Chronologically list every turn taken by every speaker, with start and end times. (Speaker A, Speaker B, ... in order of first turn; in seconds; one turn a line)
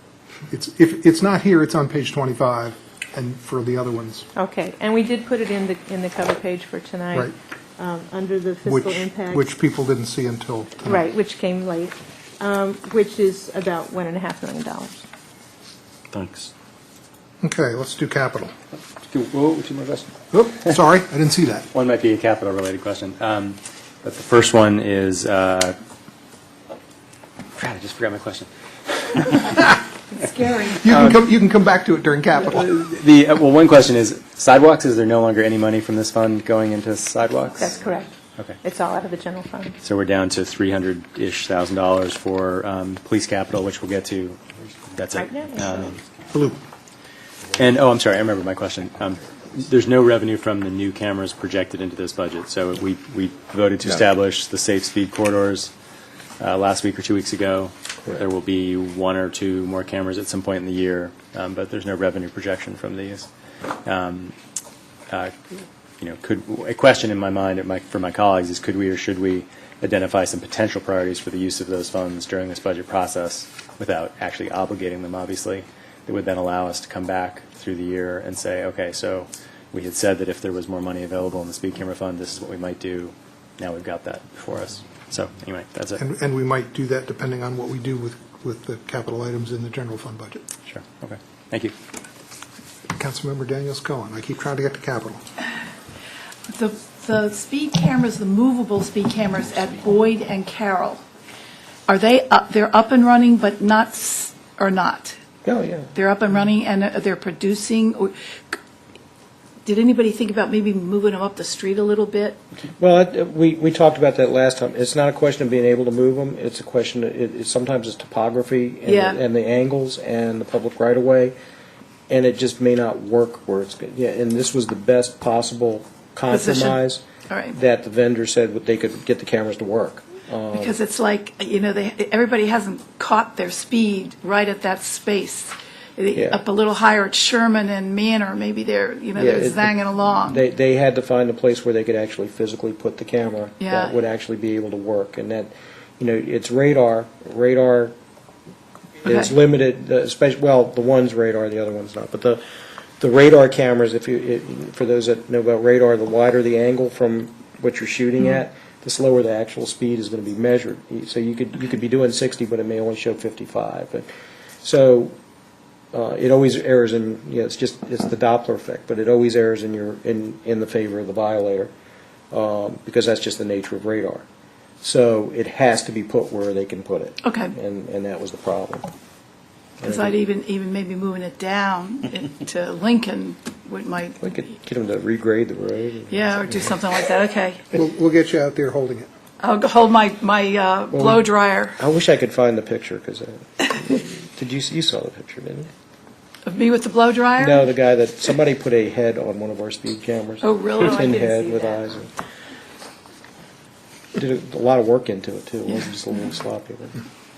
Speaker A: 0.5-4.3
Speaker B: 4.4-9.5
Speaker A: 8.7-11.0
Speaker B: 10.8-15.0
Speaker C: 16.1-16.5
Speaker A: 17.4-18.5
Speaker C: 19.1-20.8
Speaker A: 20.3-21.7
Speaker C: 21.7-25.8
Speaker C: 27.6-29.8
Speaker D: 30.1-30.8
Speaker A: 30.8-32.7
Speaker C: 30.9-31.2
Speaker C: 32.4-37.8
Speaker B: 37.6-39.8
Speaker C: 39.8-44.4
Speaker C: 44.9-46.0
Speaker B: 45.1-45.9
Speaker C: 47.6-55.7
Speaker C: 56.4-63.3
Speaker C: 63.9-64.3
Speaker C: 66.0-86.0
Speaker A: 86.0-90.4
Speaker C: 90.7-91.7
Speaker A: 92.9-95.2
Speaker D: 96.5-101.0
Speaker D: 101.9-105.2
Speaker E: 105.5-105.9
Speaker D: 106.0-108.6
Speaker D: 109.7-112.4
Speaker E: 112.8-121.3
Speaker D: 118.9-119.2
Speaker E: 122.1-130.8
Speaker D: 126.3-126.8
Speaker D: 127.3-127.6
Speaker D: 130.5-140.4
Speaker E: 136.1-136.4
Speaker E: 139.2-147.9
Speaker D: 143.6-144.0
Speaker E: 149.0-152.4
Speaker E: 153.0-164.1
Speaker E: 164.6-165.1
Speaker E: 165.9-171.7
Speaker E: 172.3-174.2
Speaker E: 174.8-178.9
Speaker D: 177.2-177.5
Speaker D: 179.8-184.2
Speaker E: 179.8-180.1
Speaker E: 184.2-186.4
Speaker D: 186.1-187.7
Speaker A: 187.7-189.1
Speaker D: 189.4-191.8
Speaker E: 190.9-195.7
Speaker D: 196.4-197.7
Speaker E: 197.4-202.1
Speaker D: 200.4-201.1
Speaker B: 200.8-201.9
Speaker E: 204.2-207.0